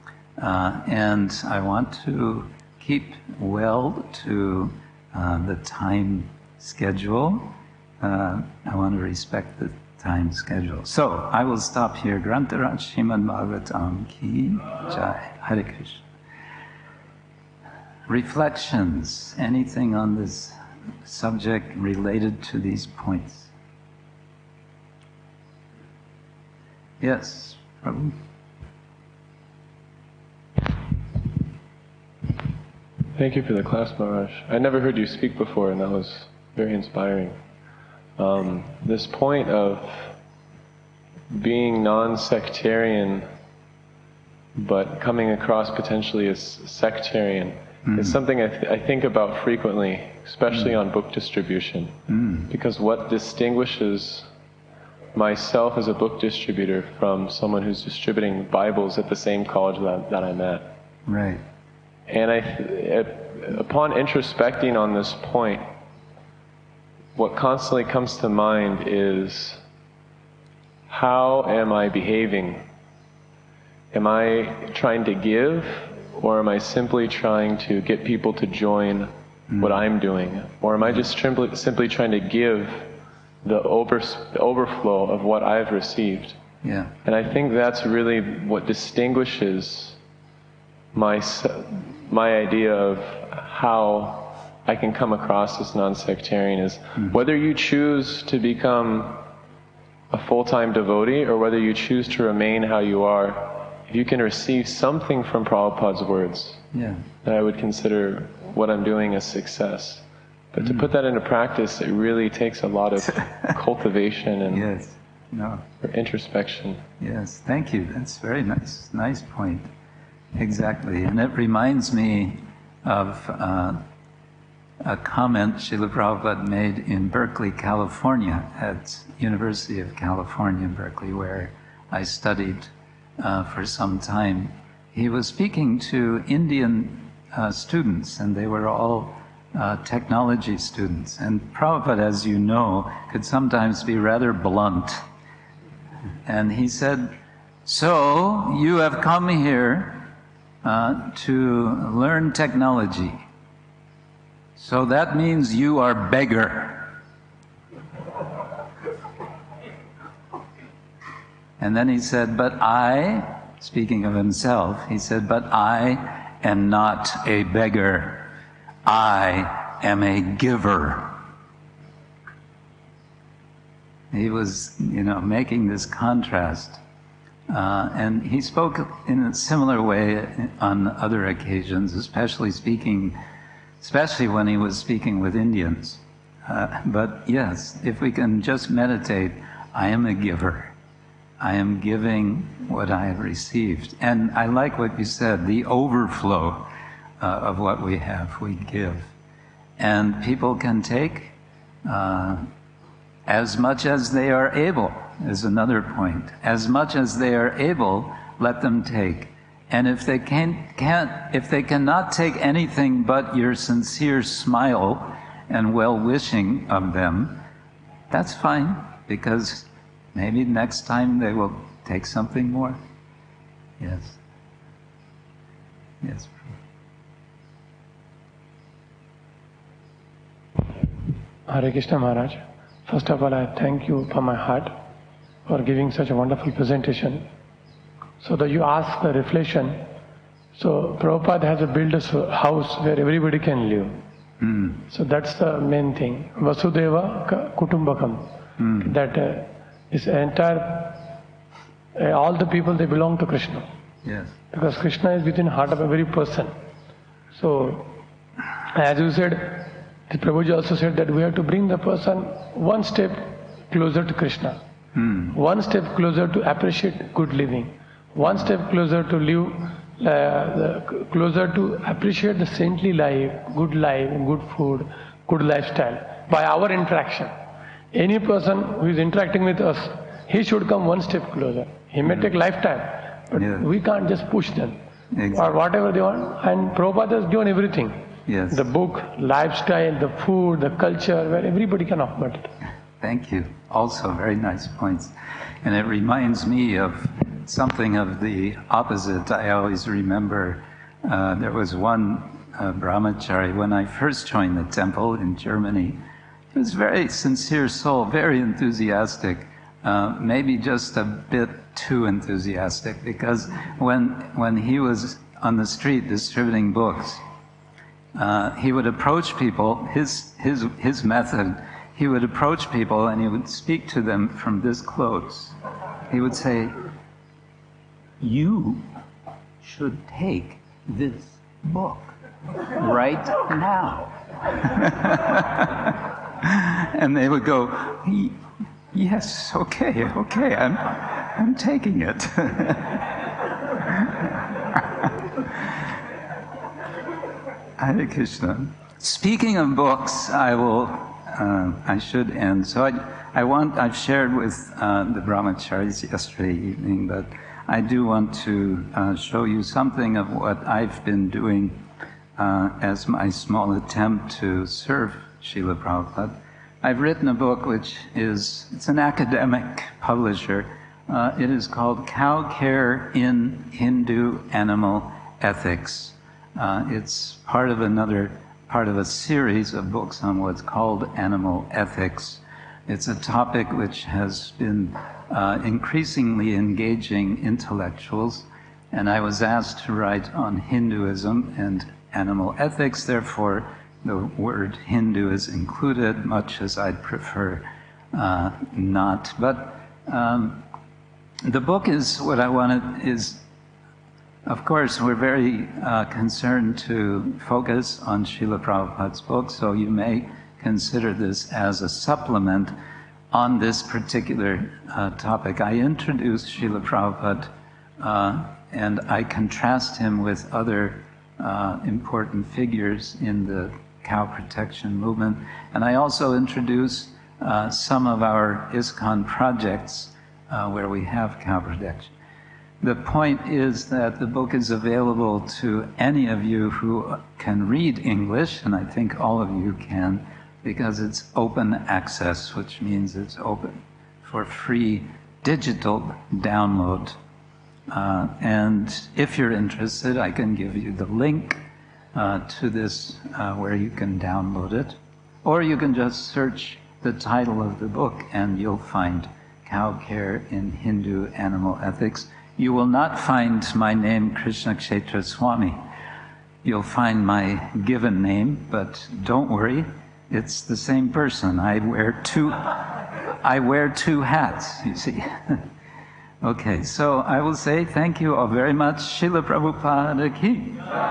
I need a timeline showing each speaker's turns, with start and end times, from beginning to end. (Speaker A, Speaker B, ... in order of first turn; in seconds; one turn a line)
Speaker A: 0.4-16.0
Speaker A: 18.1-23.5
Speaker A: 27.0-28.2
Speaker B: 33.1-37.4
Speaker B: 38.2-40.1
Speaker B: 41.3-43.2
Speaker B: 44.5-51.9
Speaker A: 47.9-48.1
Speaker A: 52.1-52.5
Speaker B: 52.5-54.3
Speaker B: 55.1-60.7
Speaker A: 61.0-61.4
Speaker B: 62.1-65.7
Speaker B: 67.1-69.6
Speaker B: 70.9-72.6
Speaker B: 73.9-82.9
Speaker B: 83.4-86.4
Speaker A: 86.6-86.9
Speaker B: 87.0-90.0
Speaker B: 90.9-99.2
Speaker B: 100.1-106.6
Speaker A: 106.7-107.0
Speaker B: 107.2-114.7
Speaker A: 114.5-115.6
Speaker B: 115.8-116.8
Speaker A: 117.0-119.7
Speaker A: 120.4-123.8
Speaker A: 124.8-145.0
Speaker A: 146.2-147.1
Speaker A: 147.6-150.1
Speaker A: 150.6-153.2
Speaker A: 154.6-156.9
Speaker A: 161.6-168.3
Speaker A: 168.8-171.2
Speaker A: 174.1-176.8
Speaker A: 177.5-183.2
Speaker A: 183.8-190.7
Speaker A: 191.4-196.7
Speaker A: 197.2-199.1
Speaker A: 199.8-201.3
Speaker A: 201.8-202.4
Speaker A: 203.3-217.4
Speaker A: 218.1-222.8
Speaker A: 223.8-224.2
Speaker A: 226.0-226.4
Speaker C: 231.5-234.8
Speaker C: 235.4-237.2
Speaker C: 238.2-239.8
Speaker C: 240.6-244.0
Speaker A: 244.4-244.8
Speaker C: 244.8-248.3
Speaker A: 248.6-248.9
Speaker C: 248.8-251.1
Speaker C: 251.9-253.7
Speaker A: 254.0-254.3
Speaker C: 254.5-256.5
Speaker C: 257.3-258.0
Speaker C: 258.7-264.6
Speaker A: 265.0-265.3
Speaker C: 265.3-277.3
Speaker C: 277.9-284.8
Speaker A: 283.4-283.6
Speaker A: 285.1-285.6
Speaker C: 285.3-292.5
Speaker A: 288.3-288.7
Speaker A: 293.0-295.1
Speaker A: 295.6-306.0
Speaker A: 306.5-317.2
Speaker A: 318.1-325.5
Speaker A: 326.1-326.8
Speaker A: 328.2-328.8
Speaker A: 329.6-332.1
Speaker A: 332.7-338.4
Speaker A: 338.9-343.0
Speaker A: 347.8-361.8
Speaker A: 362.4-400.6
Speaker A: 401.4-403.4
Speaker A: 404.4-412.7
Speaker A: 413.3-432.1
Speaker A: 432.8-447.2
Speaker A: 447.9-451.6
Speaker A: 452.1-465.8
Speaker A: 466.6-475.6
Speaker A: 476.4-480.9